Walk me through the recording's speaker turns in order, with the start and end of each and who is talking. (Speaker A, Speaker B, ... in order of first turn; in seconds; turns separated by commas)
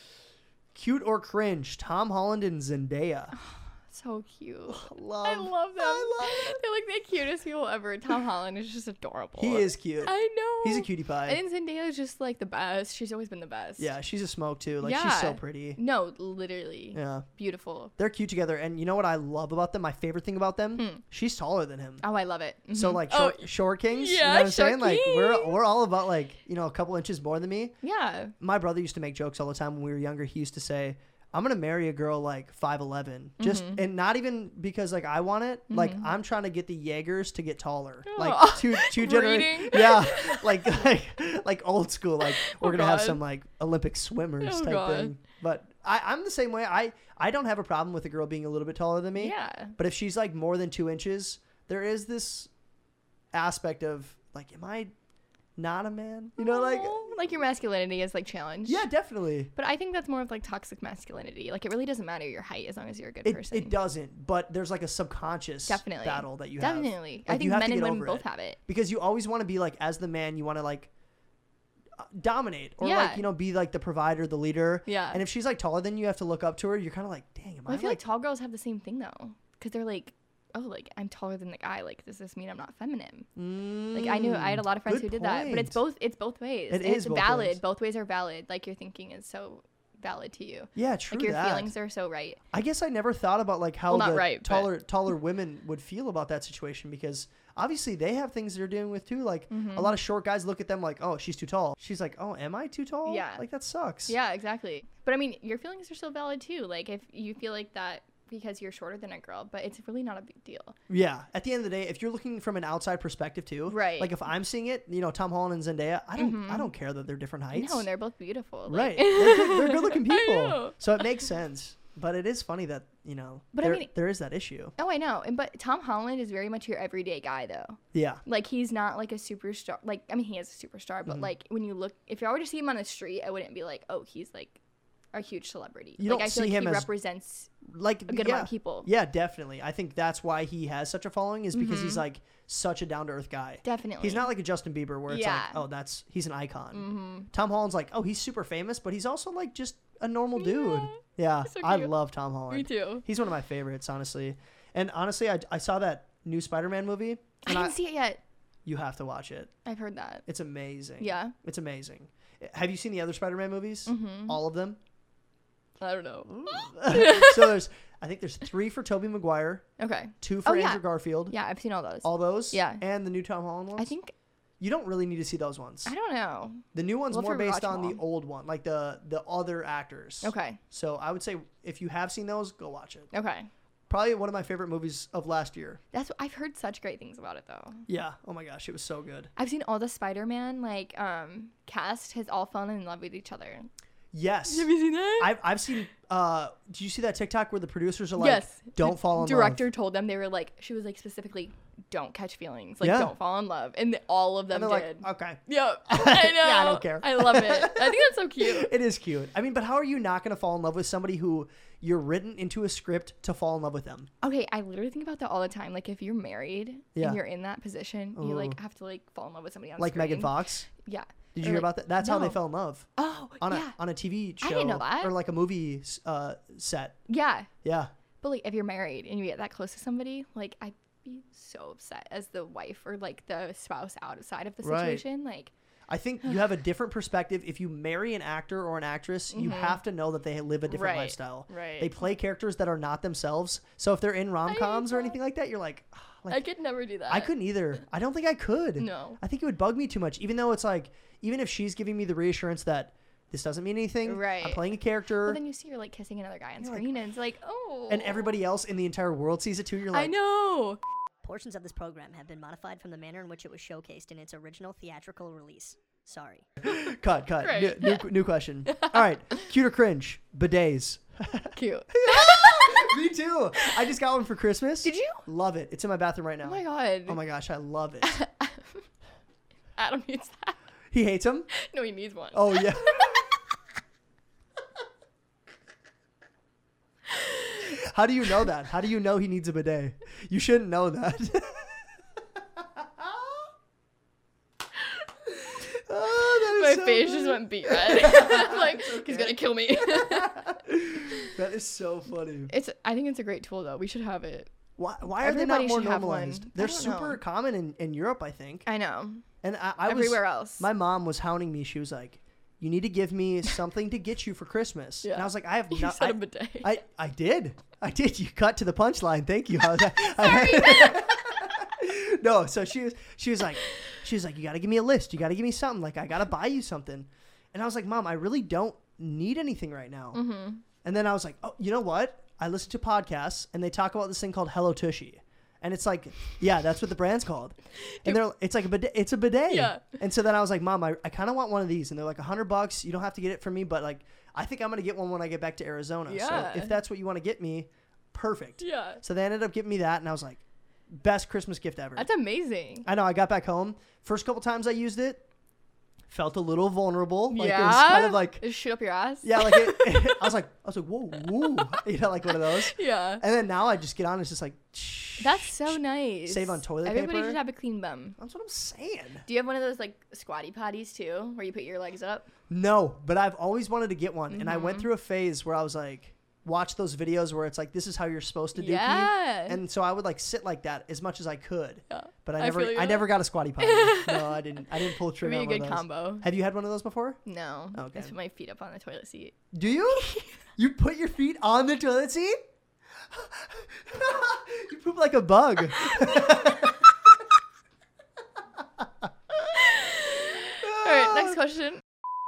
Speaker A: 0.7-3.3, Speaker B: 3.3-13.9, Speaker A: 4.7-6.6, Speaker A: 9.4-11.4, Speaker A: 13.8-15.8, Speaker B: 14.8-17.9, Speaker A: 16.9-17.2, Speaker A: 18.0-22.0, Speaker B: 20.8-21.0, Speaker B: 22.0-25.6, Speaker A: 22.7-27.8, Speaker B: 27.8-28.3, Speaker A: 28.4-52.5, Speaker B: 33.4-33.8, Speaker B: 35.7-36.1, Speaker B: 38.0-40.7, Speaker B: 42.2-43.2, Speaker B: 44.4-45.1, Speaker B: 49.1-49.8, Speaker A: 53.3-54.9, Speaker A: 55.5-57.0, Speaker B: 56.4-58.8, Speaker A: 58.7-59.5, Speaker B: 59.5-63.7, Speaker A: 63.2-70.9, Speaker B: 65.7-68.6, Speaker A: 72.0-78.0, Speaker B: 72.8-73.2, Speaker B: 74.8-75.2, Speaker B: 77.7-83.3, Speaker A: 83.3-85.8, Speaker B: 83.9-92.4, Speaker A: 86.7-87.6, Speaker A: 90.7-91.7, Speaker A: 92.5-104.1, Speaker B: 93.9-94.7, Speaker B: 99.5-100.0, Speaker B: 103.0-103.4, Speaker B: 104.1-110.8, Speaker A: 110.9-117.8, Speaker B: 113.7-114.2, Speaker B: 116.2-116.7, Speaker B: 117.5-121.2, Speaker A: 118.7-124.7, Speaker B: 123.5-123.9, Speaker B: 124.8-134.6, Speaker A: 127.9-128.2, Speaker B: 135.1-137.5, Speaker A: 136.0-136.9, Speaker A: 137.6-157.8, Speaker B: 138.1-138.9, Speaker B: 141.5-142.0, Speaker B: 143.6-144.3, Speaker B: 145.1-145.6, Speaker B: 146.7-147.3, Speaker B: 150.3-151.9, Speaker B: 152.5-153.0, Speaker B: 157.4-158.2, Speaker A: 158.6-159.5, Speaker B: 159.6-160.2, Speaker A: 160.2-164.8, Speaker B: 161.0-161.3, Speaker B: 163.8-164.4, Speaker B: 165.8-167.6, Speaker A: 166.3-169.7, Speaker B: 169.8-172.8, Speaker A: 170.2-171.3, Speaker A: 172.0-173.9, Speaker B: 173.8-174.1, Speaker A: 174.6-175.9, Speaker B: 175.8-178.0, Speaker A: 176.7-183.1, Speaker B: 180.2-180.6, Speaker B: 183.1-183.5, Speaker A: 183.9-185.8, Speaker B: 185.9-187.8, Speaker A: 187.9-189.3, Speaker B: 189.3-193.7, Speaker A: 194.1-199.6, Speaker B: 194.5-195.3, Speaker B: 198.2-208.7, Speaker A: 202.8-203.1, Speaker A: 204.5-214.1, Speaker B: 214.2-222.4, Speaker A: 216.9-217.2, Speaker A: 218.1-218.6, Speaker A: 219.8-220.7, Speaker A: 221.3-222.9, Speaker B: 222.9-223.8, Speaker A: 223.4-227.0, Speaker B: 224.4-225.1, Speaker B: 227.1-227.5, Speaker A: 227.6-227.9, Speaker B: 228.2-235.5, Speaker A: 234.6-235.0, Speaker A: 235.9-246.4, Speaker B: 239.3-239.8, Speaker B: 240.7-241.9, Speaker B: 244.5-245.2, Speaker B: 246.3-247.8, Speaker A: 247.1-255.4, Speaker B: 248.8-249.2, Speaker B: 254.0-258.3, Speaker A: 256.6-256.9, Speaker A: 257.9-260.1, Speaker B: 259.9-260.8, Speaker C: 261.2-266.4, Speaker A: 266.6-278.2, Speaker B: 267.4-268.1, Speaker B: 268.7-269.0, Speaker B: 271.5-273.0, Speaker B: 274.8-275.3, Speaker B: 276.4-277.2, Speaker B: 278.0-278.8, Speaker B: 279.8-280.6, Speaker A: 280.9-281.5, Speaker B: 281.5-283.3, Speaker A: 282.3-283.4, Speaker B: 287.1-287.7, Speaker A: 287.7-291.9, Speaker A: 292.6-293.4, Speaker A: 295.2-302.5, Speaker B: 296.4-301.3, Speaker B: 302.5-304.5, Speaker A: 304.8-308.7, Speaker B: 305.1-307.2, Speaker B: 308.6-309.2, Speaker A: 309.4-330.2, Speaker B: 309.9-310.7, Speaker B: 315.0-316.8, Speaker B: 320.1-321.4, Speaker B: 330.1-330.6, Speaker A: 330.8-352.1, Speaker B: 337.8-338.2, Speaker B: 339.5-339.9, Speaker B: 346.1-346.7, Speaker B: 348.6-349.0, Speaker B: 351.9-352.9, Speaker A: 352.8-355.2, Speaker A: 356.1-358.4, Speaker B: 357.3-360.2, Speaker A: 359.2-367.4, Speaker B: 361.3-363.2, Speaker B: 365.2-368.2, Speaker A: 368.2-369.2, Speaker B: 369.2-372.3, Speaker A: 372.5-387.2, Speaker B: 374.3-374.9, Speaker B: 378.5-379.6, Speaker B: 381.9-386.2, Speaker B: 387.2-390.4, Speaker A: 387.7-388.1, Speaker A: 389.5-392.4, Speaker A: 393.1-396.9, Speaker B: 399.6-401.8, Speaker A: 400.6-401.4